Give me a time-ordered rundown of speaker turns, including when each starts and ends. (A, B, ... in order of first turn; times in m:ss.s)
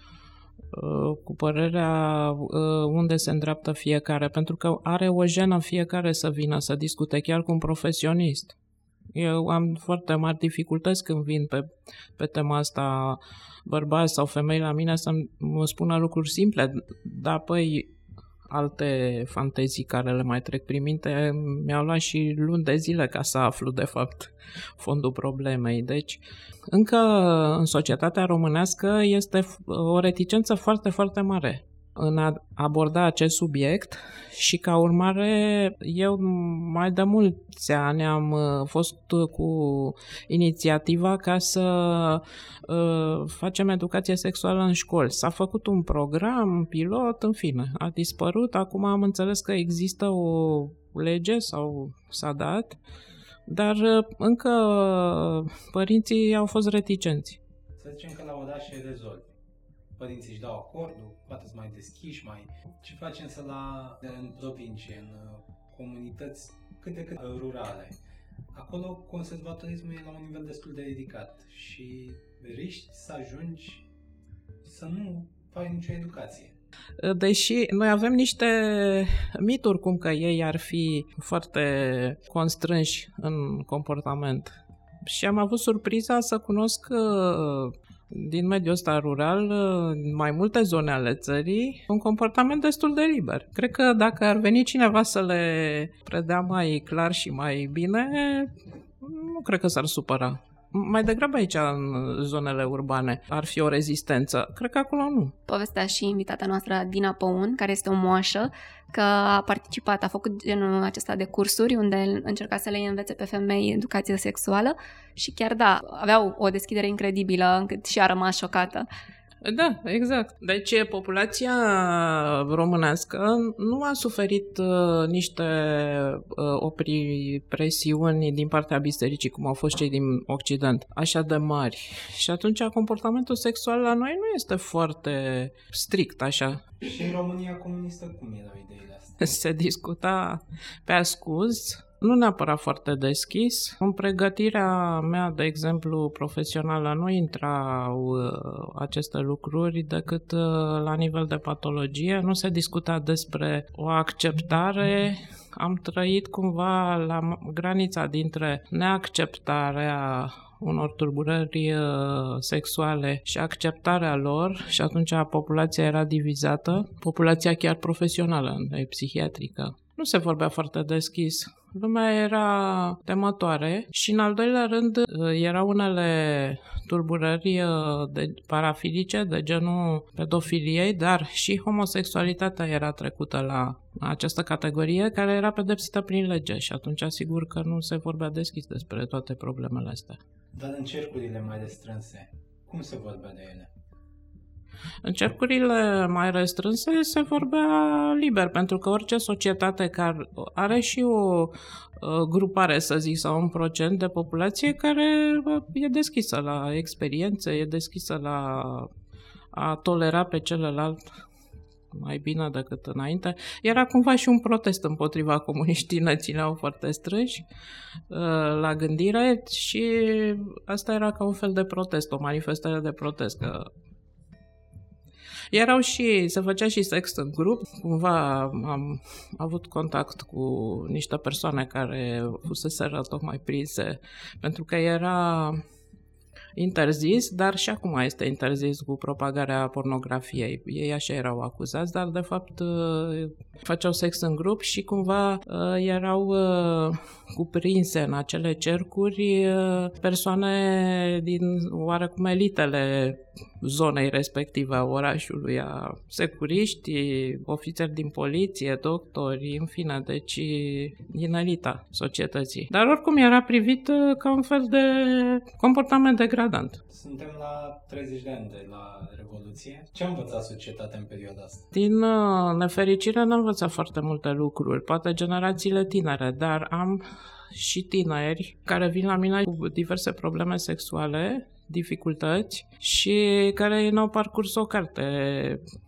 0:00.7-0:08.6 A
0:09.1-0:17.9 A
0:18.5-0:52.8 A
0:53.5-0:57.4 A
0:57.8-0:59.3 B
1:00.0-1:08.0 B
1:08.5-1:13.9 B
1:14.6-1:16.6 B
1:17.0-1:45.4 A
1:45.5-1:58.9 C
1:59.4-2:16.6 A
2:16.8-2:19.2 B
2:19.2-3:10.2 A
3:10.5-3:13.7 B
3:15.0-3:28.9 A
3:29.5-3:31.1 A
3:31.9-3:37.5 A
3:38.1-3:43.7 A
3:45.5-3:55.6 A
3:56.6-4:26.8 A
4:26.9-4:31.7 B
4:31.7-4:45.6 A